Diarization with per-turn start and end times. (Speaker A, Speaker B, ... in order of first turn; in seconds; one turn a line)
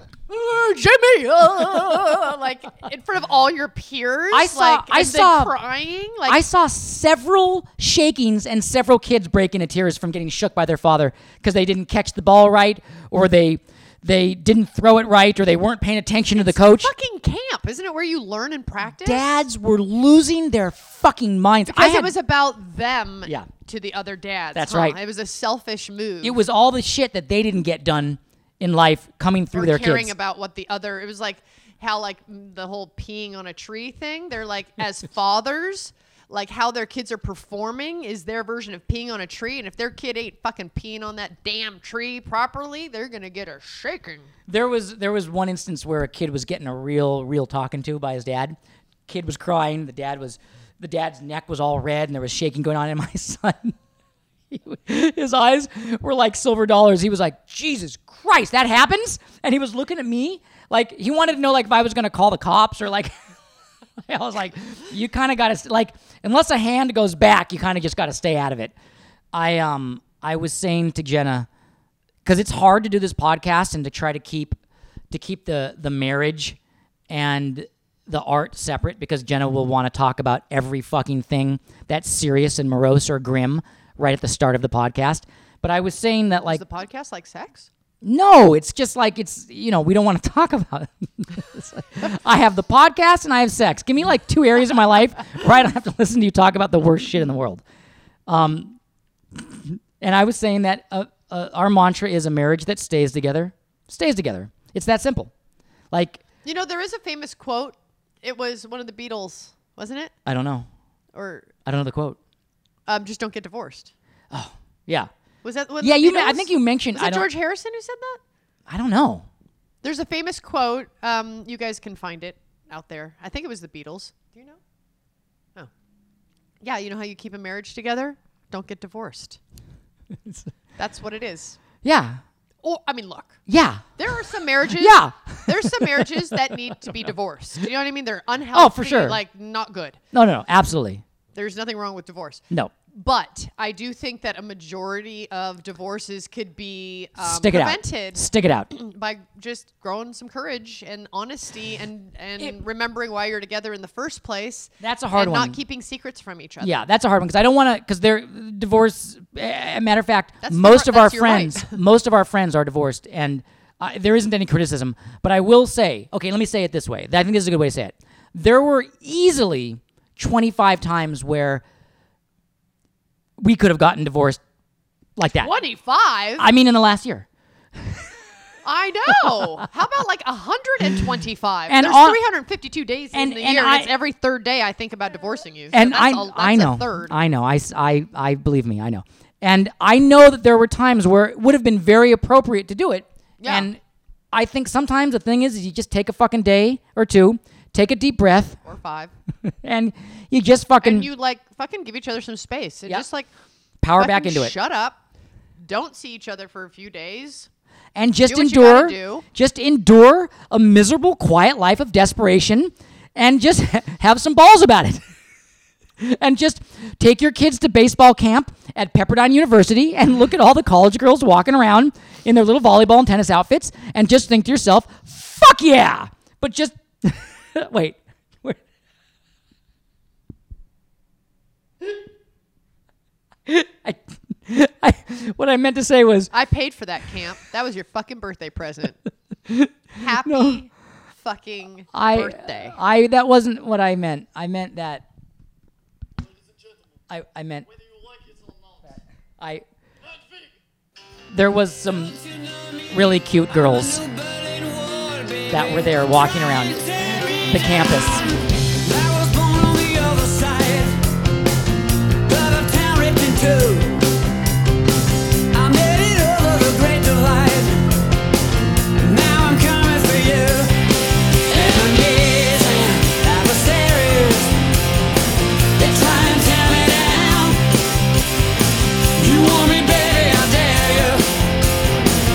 Speaker A: 0.3-6.4
Speaker B: 4.3-5.5
Speaker B: 6.2-16.9
Speaker A: 16.3-19.3
Speaker B: 19.0-22.1
Speaker A: 21.7-26.4
Speaker B: 24.5-25.0
Speaker B: 26.2-30.1
Speaker A: 29.5-44.3
Speaker B: 44.5-48.5
Speaker B: 49.1-53.8
Speaker B: 54.5-63.1
Speaker B: 64.0-68.7
Speaker B: 69.3-71.5
Speaker B: 72.2-74.6
Speaker B: 75.1-76.6
Speaker B: 77.1-86.6
Speaker A: 86.5-87.7
Speaker B: 88.0-97.6
Speaker B: 98.3-98.8
Speaker B: 99.3-105.3
Speaker B: 105.9-106.2
Speaker A: 106.4-110.1
Speaker B: 110.2-110.7
Speaker A: 111.1-111.5
Speaker B: 111.7-112.2
Speaker A: 112.9-113.9
Speaker B: 114.3-115.1
Speaker A: 115.4-118.2
Speaker B: 115.8-117.3
Speaker B: 118.7-119.3
Speaker A: 119.8-124.6
Speaker A: 126.6-129.4
Speaker B: 130.2-130.5
Speaker A: 130.8-131.6
Speaker B: 131.8-132.2
Speaker A: 132.6-133.4
Speaker B: 133.5-133.9
Speaker A: 134.0-140.0
Speaker B: 134.7-137.1
Speaker B: 138.5-139.2
Speaker B: 140.1-141.0
Speaker A: 141.3-156.8
Speaker B: 147.2-148.7
Speaker B: 154.8-155.6
Speaker B: 156.6-171.6
Speaker A: 160.4-161.8
Speaker B: 173.4-174.4
Speaker B: 175.2-175.5
Speaker A: 175.4-176.5
Speaker B: 176.4-178.1
Speaker A: 178.6-187.1
Speaker B: 181.7-182.2
Speaker B: 183.1-183.9
Speaker B: 185.7-193.8
Speaker A: 193.4-193.7
Speaker B: 194.3-198.6
Speaker A: 198.6-199.1
Speaker B: 199.4-201.1
Speaker A: 200.8-203.3
Speaker B: 203.8-204.6
Speaker A: 204.0-205.0
Speaker A: 205.6-207.5
Speaker B: 207.9-215.0
Speaker A: 208.2-209.2
Speaker B: 216.0-228.6
Speaker B: 233.4-236.3
Speaker A: 236.3-239.0
Speaker B: 239.4-240.6
Speaker A: 239.9-242.8
Speaker B: 241.9-245.1
Speaker B: 247.1-247.7
Speaker B: 248.9-249.6
Speaker B: 251.3-252.2
Speaker C: 251.9-261.0
Speaker B: 252.9-254.0
Speaker B: 255.5-256.8
Speaker B: 257.5-258.3
Speaker C: 262.2-264.1
Speaker C: 265.5-267.9
Speaker C: 269.0-274.6
Speaker C: 275.8-277.8
Speaker C: 279.1-281.4